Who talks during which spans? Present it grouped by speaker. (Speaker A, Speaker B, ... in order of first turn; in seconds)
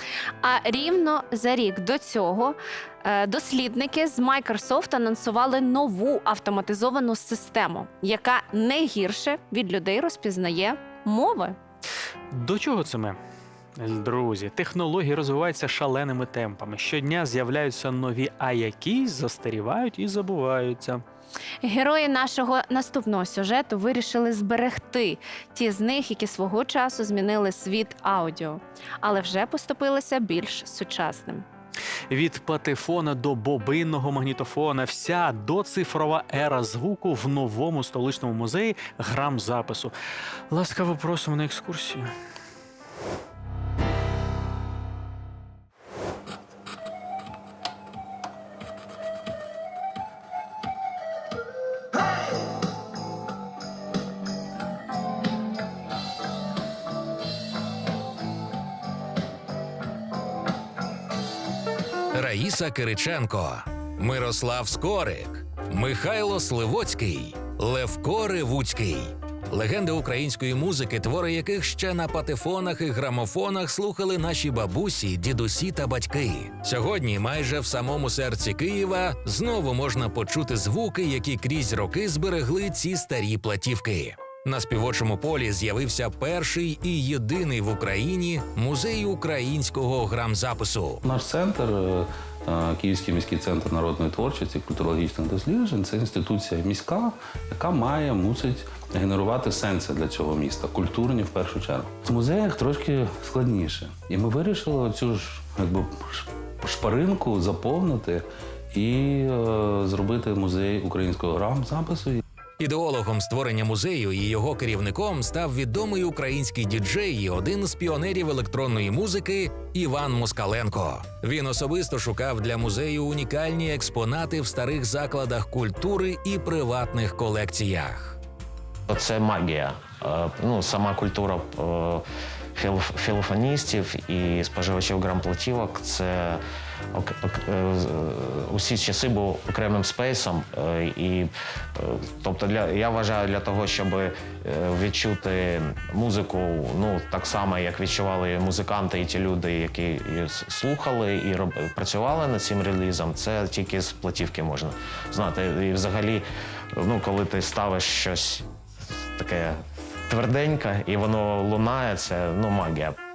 Speaker A: 0.4-11.6, 21.6-31.4
Speaker B: 12.3-13.2, 13.8-21.0, 32.1-39.9, 40.5-42.1
Speaker C: 62.1-91.0, 112.6-128.2
Speaker D: 91.0-112.2
Speaker E: 128.9-132.0, 132.6-158.5, 159.2-163.0